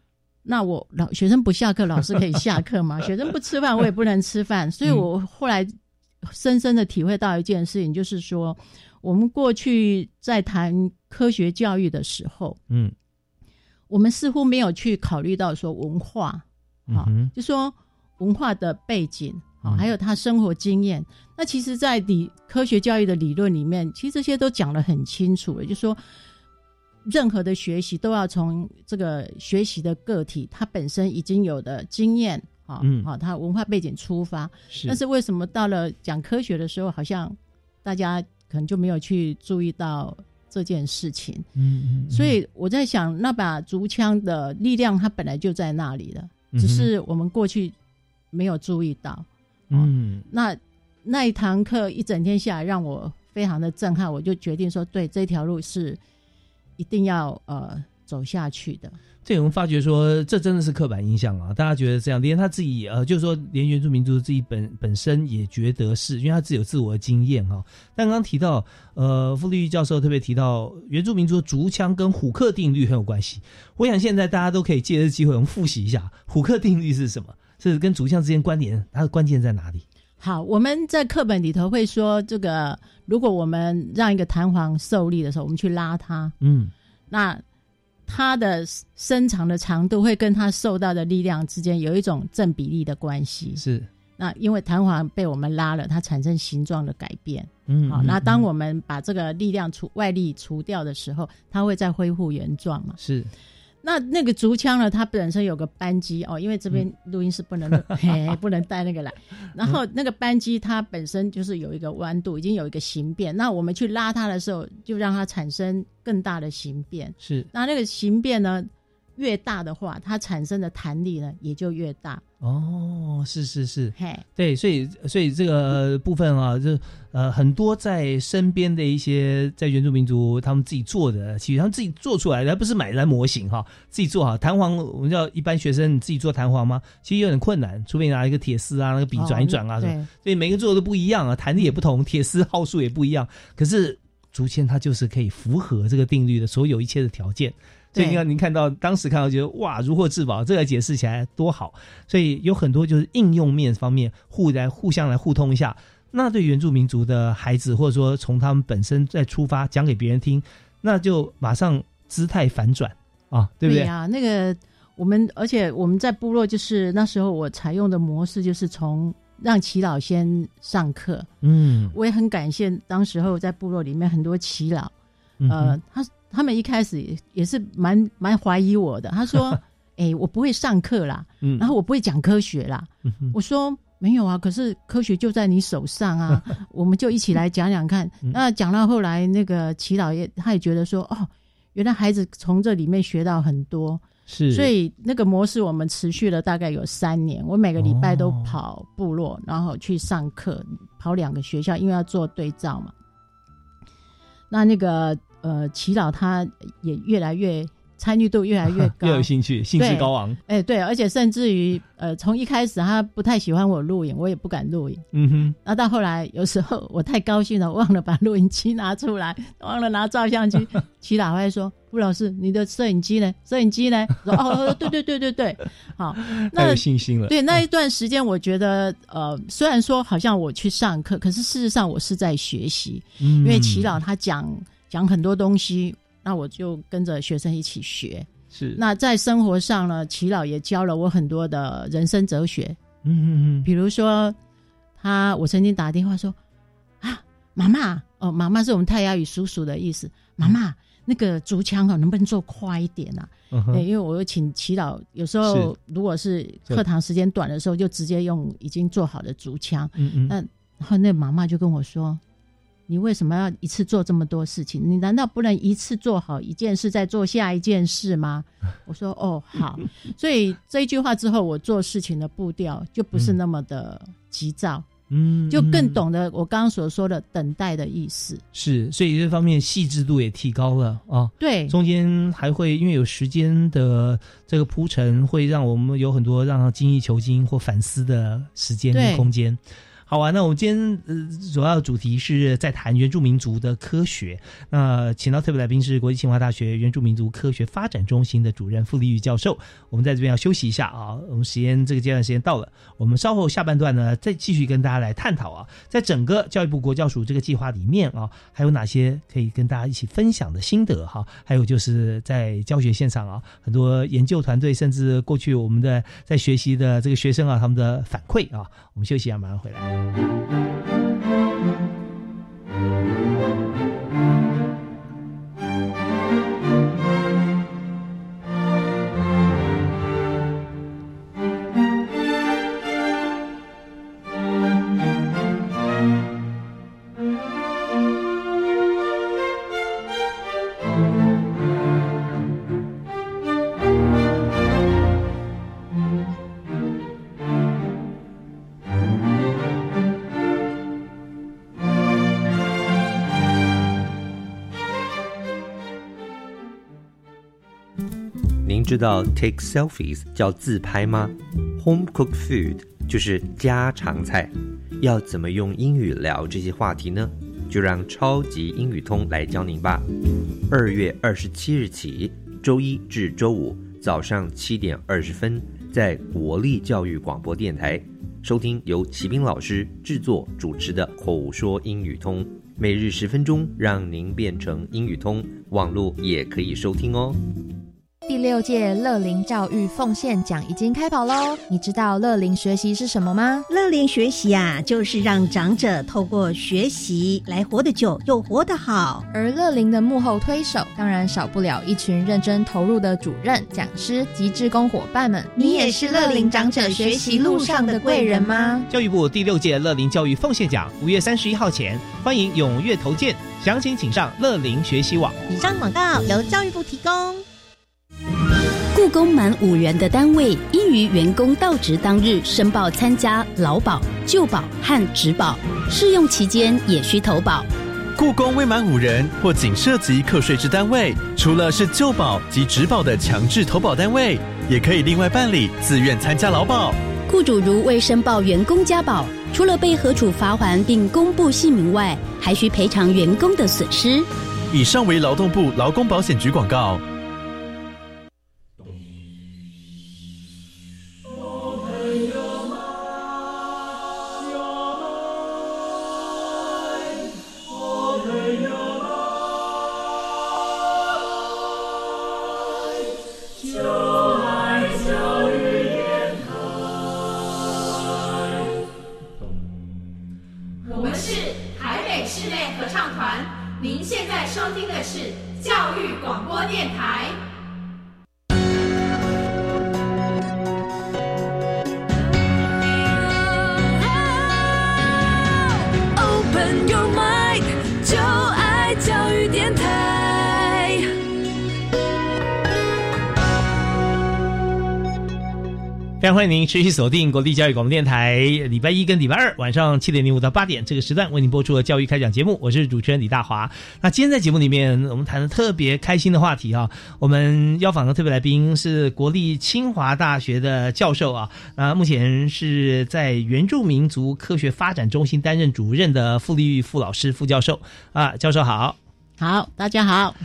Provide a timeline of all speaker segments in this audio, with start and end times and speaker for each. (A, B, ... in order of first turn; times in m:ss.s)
0:00.4-0:05.7 A
0:06.2-0:12.6 A
0:12.7-0:12.9 B
0:13.9-0:26.0 A
0:16.9-0:17.3 B
0:27.1-0:41.5 A
0:32.8-0:33.1 B
0:34.7-0:35.0 B
0:41.6-0:42.4 B
0:42.1-0:47.8 A
0:46.5-0:46.9 B
0:48.3-0:56.0 A
0:49.7-0:50.3 B
0:56.8-0:59.0 A
0:59.2-1:19.8 B
1:20.2-1:26.4 A
1:26.4-1:26.7 B
1:27.1-1:27.4 A
1:28.1-1:33.6 A
1:33.6-1:33.9 B
1:34.2-1:43.0 A
1:37.7-1:38.4 B
1:43.0-1:43.3 B
1:43.8-2:02.2 A
1:57.2-1:57.5 B
2:02.4-2:43.9 B
2:04.0-2:04.2 A
2:19.2-2:20.1 A
2:28.0-2:28.2 A
2:43.6-2:51.3 A
2:51.4-2:52.0 B
2:51.9-2:54.9 A
2:55.4-2:55.8 B
2:55.5-3:22.9 A
3:01.4-3:01.7 B
3:14.3-3:14.7 B
3:17.8-3:18.6 B
3:24.5-3:35.0 A
3:28.7-3:30.4 B
3:35.1-3:35.6 B
3:35.6-4:02.8 A
3:46.2-3:47.6 B
3:53.2-3:53.9 B
3:58.5-3:58.8 B
4:03.0-4:03.7 B
4:03.6-4:04.4 A
4:05.0-4:06.4 A
4:07.0-4:22.2 A
4:13.5-4:13.8 B
4:15.4-4:15.7 B
4:20.0-4:20.4 B
4:22.9-4:34.9 A
4:35.1-4:36.0 B
4:35.5-4:38.4 A
4:38.5-5:19.9 B
4:41.4-4:41.8 A
4:48.9-4:49.3 A
5:58.6-6:10.0 C
6:10.7-6:27.4 C
6:28.3-6:33.6 D
6:33.7-6:39.2 E
6:39.3-6:48.8 D
6:45.6-6:48.6 E
6:48.9-6:55.4 B
6:55.5-6:57.4 E
6:58.9-7:07.7 F
7:08.2-7:17.0 G
7:17.3-7:24.3 F
7:24.7-7:27.0 G
8:04.2-8:04.8 F
8:06.2-8:11.0 F
8:16.2-8:39.0 B
8:39.4-8:40.4 A